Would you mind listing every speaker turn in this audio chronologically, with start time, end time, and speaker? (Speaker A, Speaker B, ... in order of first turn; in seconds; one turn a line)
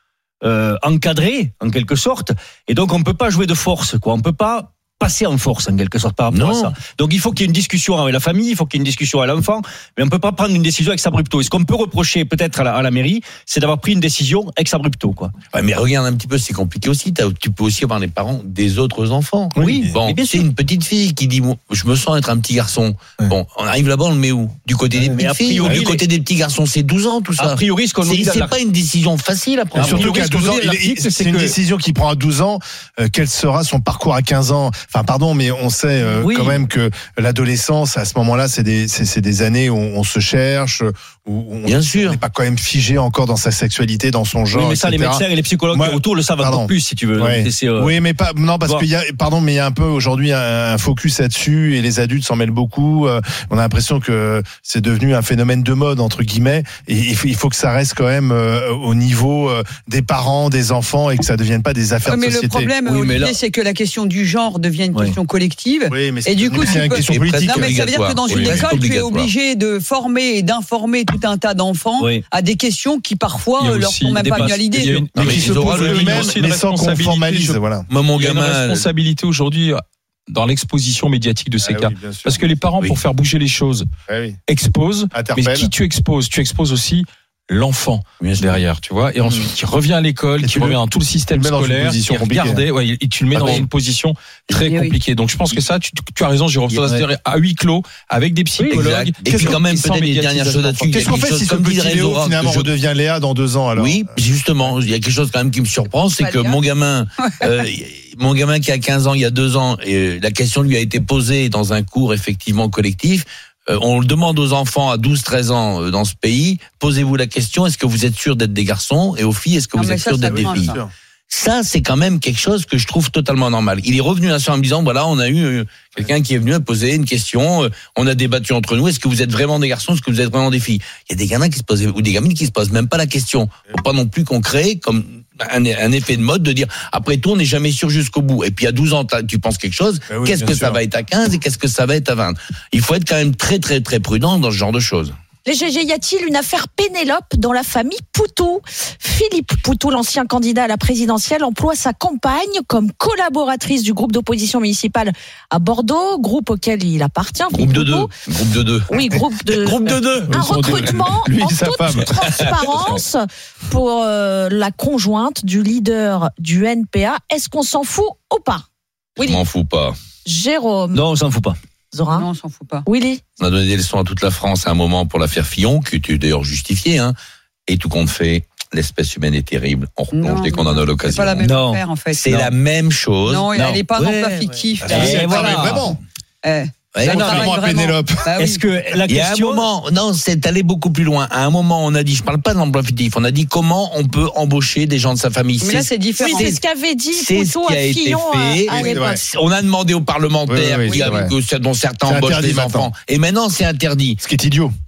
Speaker A: 0.4-15.3
Speaker B: 6.3-6.7
Speaker B: 15.5-30.3
Speaker C: 19.5-19.9
Speaker A: 19.6-20.5
Speaker A: 25.0-26.1
Speaker A: 27.4-28.6
Speaker A: 29.8-31.6
Speaker C: 29.8-62.7
Speaker A: 36.2-36.6
Speaker B: 41.6-42.2
Speaker A: 44.5-47.9
Speaker D: 62.0-75.1
Speaker A: 62.9-63.4
Speaker C: 65.9-67.9
Speaker B: 67.0-69.3
Speaker A: 72.0-72.2
Speaker E: 73.6-83.8
Speaker A: 74.2-75.1
Speaker B: 75.1-76.3
Speaker C: 75.2-77.9
Speaker B: 77.9-78.9
Speaker C: 81.6-82.5
Speaker C: 84.1-84.4
Speaker E: 84.5-101.2
Speaker C: 85.1-85.7
Speaker B: 88.2-88.6
Speaker C: 90.4-92.6
Speaker C: 93.3-93.7
Speaker D: 94.6-94.9
Speaker B: 96.7-97.0
Speaker A: 98.6-98.8
Speaker B: 98.7-102.7
Speaker C: 100.9-104.1
Speaker B: 103.7-120.7
Speaker F: 106.2-106.6
Speaker D: 119.8-120.8
Speaker C: 120.3-120.9
Speaker B: 121.3-145.1
Speaker C: 140.1-140.8
Speaker F: 145.4-158.1
Speaker B: 157.5-160.4
Speaker F: 158.9-168.6
Speaker C: 160.3-162.1
Speaker B: 162.3-163.0
Speaker F: 169.2-169.4
Speaker B: 169.2-169.9
Speaker F: 170.2-171.0
Speaker A: 170.9-171.6
Speaker F: 171.9-172.3
Speaker D: 172.1-172.9
Speaker F: 172.8-173.2
Speaker B: 173.4-177.1
Speaker B: 177.7-181.5
Speaker D: 180.1-182.2
Speaker A: 181.4-182.5
Speaker B: 182.1-184.3
Speaker D: 183.2-185.6
Speaker C: 184.8-186.0
Speaker A: 184.9-185.9
Speaker D: 186.4-188.6
Speaker B: 186.9-187.5
Speaker A: 187.0-187.6
Speaker C: 187.0-188.3
Speaker A: 188.4-189.7
Speaker B: 189.0-196.5
Speaker D: 195.6-196.6
Speaker F: 196.2-199.2
Speaker B: 197.1-204.2
Speaker C: 198.7-199.2
Speaker C: 200.5-201.3
Speaker F: 200.8-201.3
Speaker C: 202.0-202.9
Speaker C: 204.2-204.7